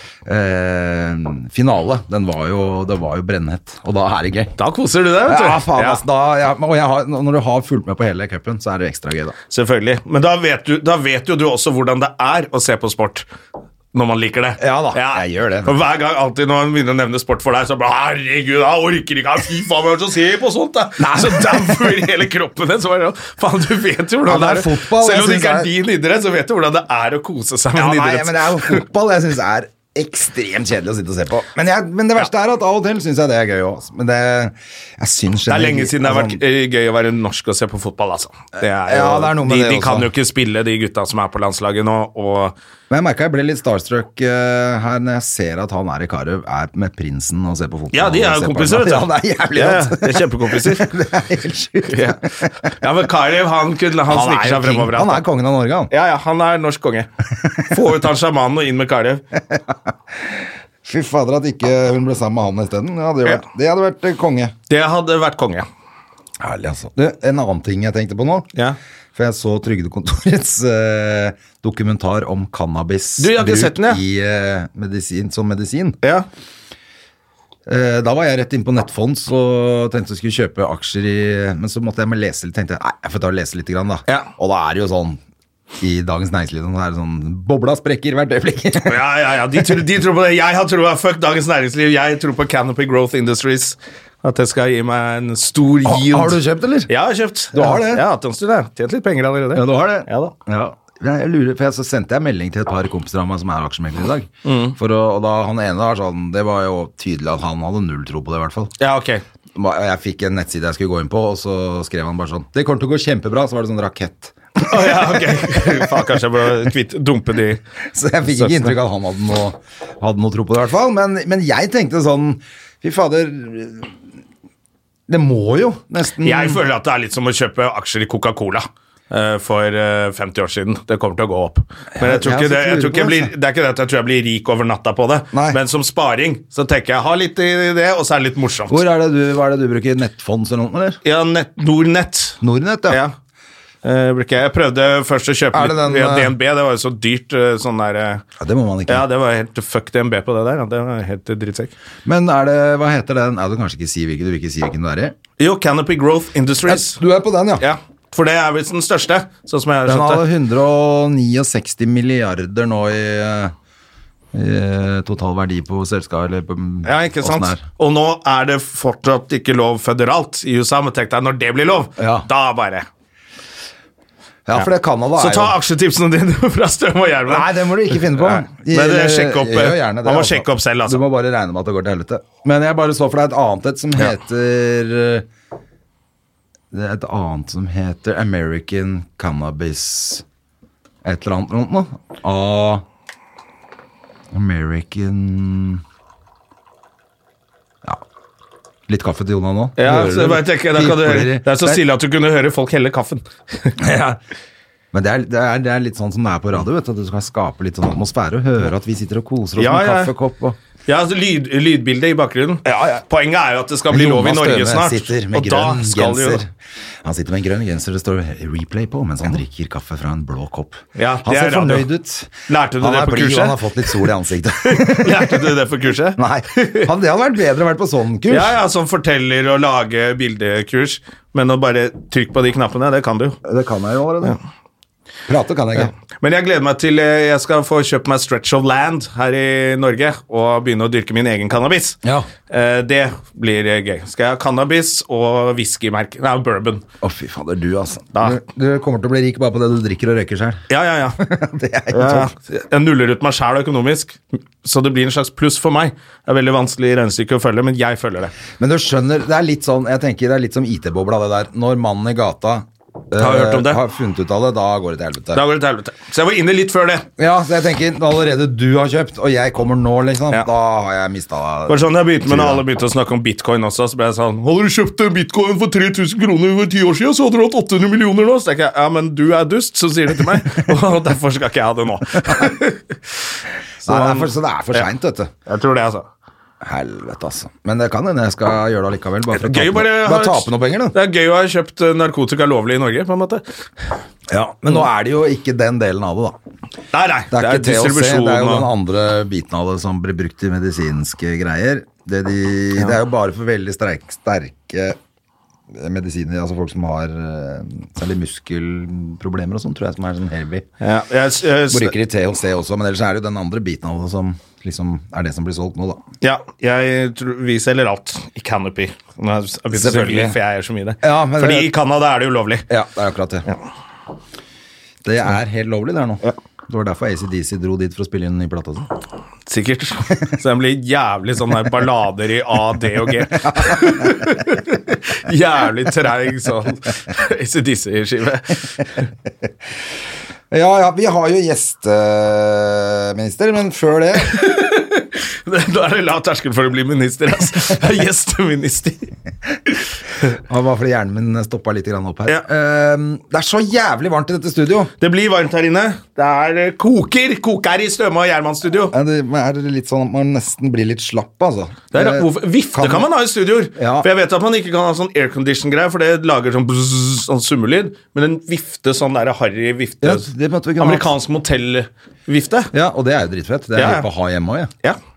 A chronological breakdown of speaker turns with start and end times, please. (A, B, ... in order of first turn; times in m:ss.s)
0:00.3-0:04.6 A
0:04.6-0:06.0 B
0:05.2-0:09.4 A
0:09.5-0:13.3 B
0:13.9-0:28.8 B
0:14.6-0:15.8 A
0:21.0-0:22.1 A
0:24.2-0:25.7 A
0:27.8-0:36.4 A
0:35.5-0:42.6 B
0:38.6-0:40.1 A
0:42.9-0:52.5 A
0:47.9-0:50.9 B
0:51.9-0:55.2 B
0:54.0-0:55.9 A
0:55.9-0:59.2 B
0:59.4-1:04.6 A
1:04.7-1:05.7 B
1:06.4-1:08.5 A
1:09.2-1:16.0 A
1:13.2-1:14.0 B
1:17.7-1:25.2 A
1:25.8-1:29.8 A
1:28.8-1:40.4 B
1:35.8-1:36.9 A
1:37.5-1:38.1 A
1:39.5-1:48.7 A
1:44.4-1:44.8 B
1:48.8-1:49.2 B
1:49.6-1:56.1 A
1:54.7-1:57.6 B
1:57.9-2:03.9 A
1:58.3-1:58.8 B
2:05.1-2:06.6 A
2:06.2-2:18.8 B
2:12.0-2:13.3 A
2:15.3-2:15.6 A
2:18.7-2:21.0 A
2:21.0-2:23.1 B
2:22.4-2:23.0 A
2:23.8-2:28.2 B
2:25.5-2:26.4 A
2:28.4-2:29.0 A
2:28.9-2:31.7 B
2:32.0-2:35.2 A
2:35.4-2:37.0 B
2:36.7-2:37.7 A
2:37.6-2:40.2 B
2:39.9-2:43.5 A
2:44.3-2:47.6 A
2:46.8-2:52.9 B
2:52.0-2:52.3 A
2:54.5-2:55.6 A
2:54.6-3:01.0 B
2:57.3-3:05.3 A
3:06.7-3:10.2 A
3:11.0-3:12.8 A
3:14.3-3:15.8 A
3:18.9-3:21.8 A
3:19.8-3:23.8 B
3:23.8-3:24.2 A
3:24.9-3:30.6 A
3:29.6-3:30.1 B
3:30.9-3:36.4 B
3:32.7-3:33.0 A
3:33.9-3:36.5 A
3:37.0-3:45.5 A
3:41.0-3:41.9 B
3:42.5-3:44.1 B
3:44.6-3:46.9 B
3:46.2-3:48.6 A
3:48.3-3:53.4 B
3:53.4-3:54.4 A
3:55.3-3:55.9 A
3:56.2-4:02.0 B
4:02.0-4:02.3 A
4:02.5-4:06.8 B
4:07.0-4:10.6 A
4:10.7-4:11.2 B
4:11.2-4:12.3 A
4:11.9-4:18.4 B
4:18.6-4:25.4 A
4:23.2-4:23.8 B
4:25.3-4:27.1 B
4:27.2-4:32.6 A
4:31.7-4:43.0 B
4:43.8-4:44.9 B
4:43.8-4:45.3 A
4:45.5-4:46.1 B
4:46.6-4:51.0 A
4:49.3-4:53.4 B
4:54.3-4:56.4 A
4:56.9-4:58.7 B
4:57.3-5:05.0 A
5:05.7-5:10.7 A
5:10.8-5:12.0 B
5:11.7-5:16.0 A
5:16.2-5:22.7 B
5:19.7-5:20.4 A
5:21.0-5:21.7 A
5:22.7-5:23.5 A
5:25.0-5:28.9 A
5:29.5-5:39.1 B
5:33.5-5:34.1 A
5:40.5-5:44.5 A
5:44.3-5:49.1 B
5:50.3-5:54.9 A
5:55.0-5:58.9 B
5:58.9-6:03.1 A
6:01.9-6:10.3 B
6:03.8-6:04.1 A
6:10.0-6:11.1 A
6:10.8-6:12.7 B
6:12.7-6:14.7 A
6:13.8-6:14.1 B